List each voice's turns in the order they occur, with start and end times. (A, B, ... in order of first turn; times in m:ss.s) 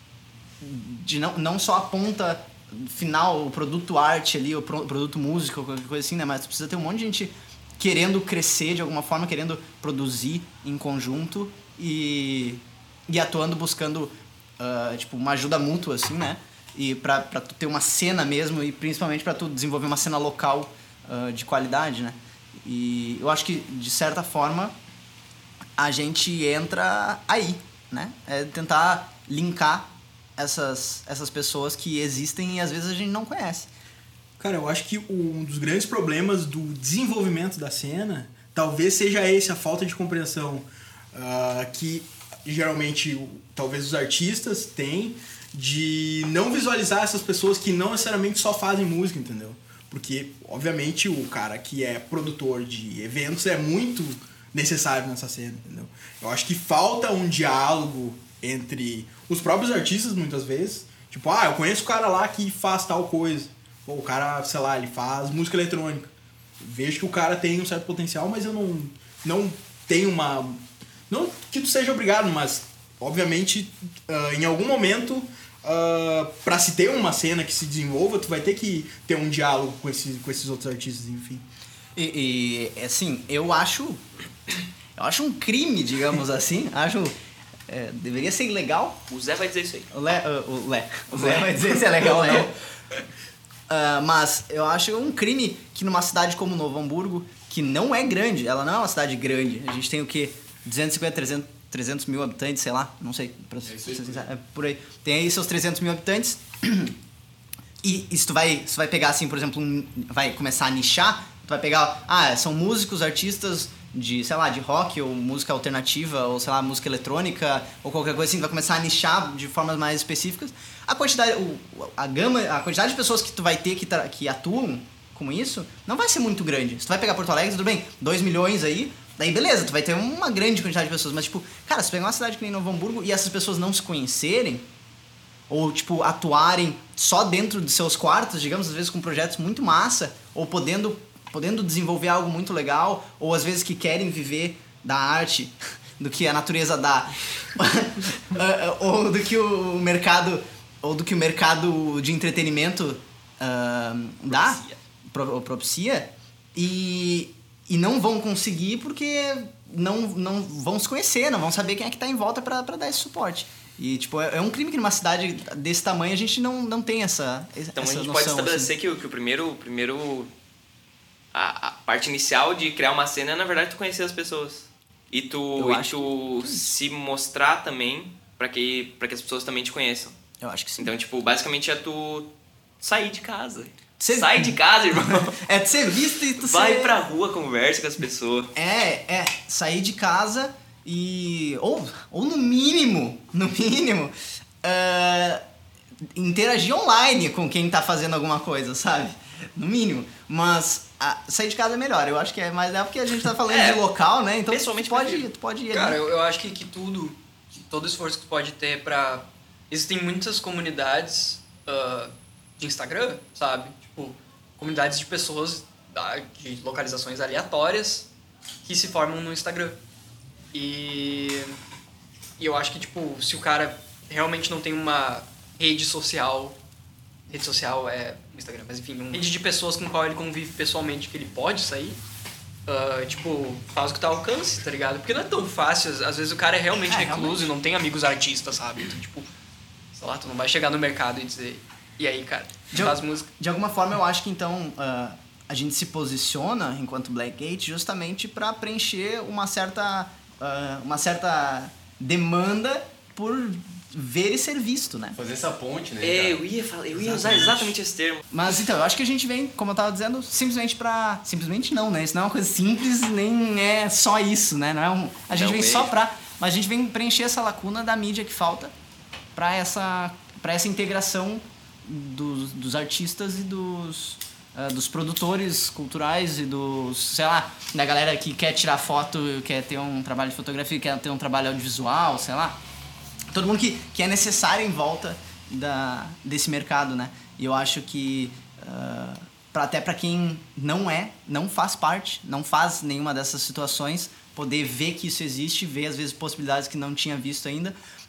0:00.6-0:24.7 A
0:25.8-0:33.7 A
0:34.4-1:21.4 B
1:22.0-1:24.0 A
1:25.0-1:27.1 A
1:27.7-1:29.0 A
1:29.1-1:29.9 C
1:29.9-1:32.6 A
1:33.7-1:47.0 A
1:43.6-1:44.2 D
1:47.8-2:14.6 A
2:15.5-2:48.7 A
2:34.3-2:34.8 C
2:47.7-2:50.3 C
2:51.3-3:00.1 C
2:55.6-2:56.7 A
3:00.4-3:00.9 A
3:00.8-3:05.4 C
3:04.0-3:07.0 A
3:06.4-3:08.5 C
3:08.5-3:15.4 A
3:16.1-3:26.0 A
3:23.5-3:23.8 C
3:24.5-3:25.3 C
3:25.7-3:38.1 E
3:38.6-3:39.8 E
3:40.5-3:41.6 E
3:42.4-3:46.5 E
3:47.3-3:52.0 E
3:52.7-3:59.3 E
3:56.8-3:57.5 A
3:59.9-4:03.3 E
4:02.7-4:15.2 A
4:15.2-4:16.4 D
4:16.0-4:18.2 C
4:17.0-4:17.6 D
4:18.3-4:28.7 A
4:25.3-4:25.9 C
4:29.3-4:42.6 A
4:43.3-4:57.8 A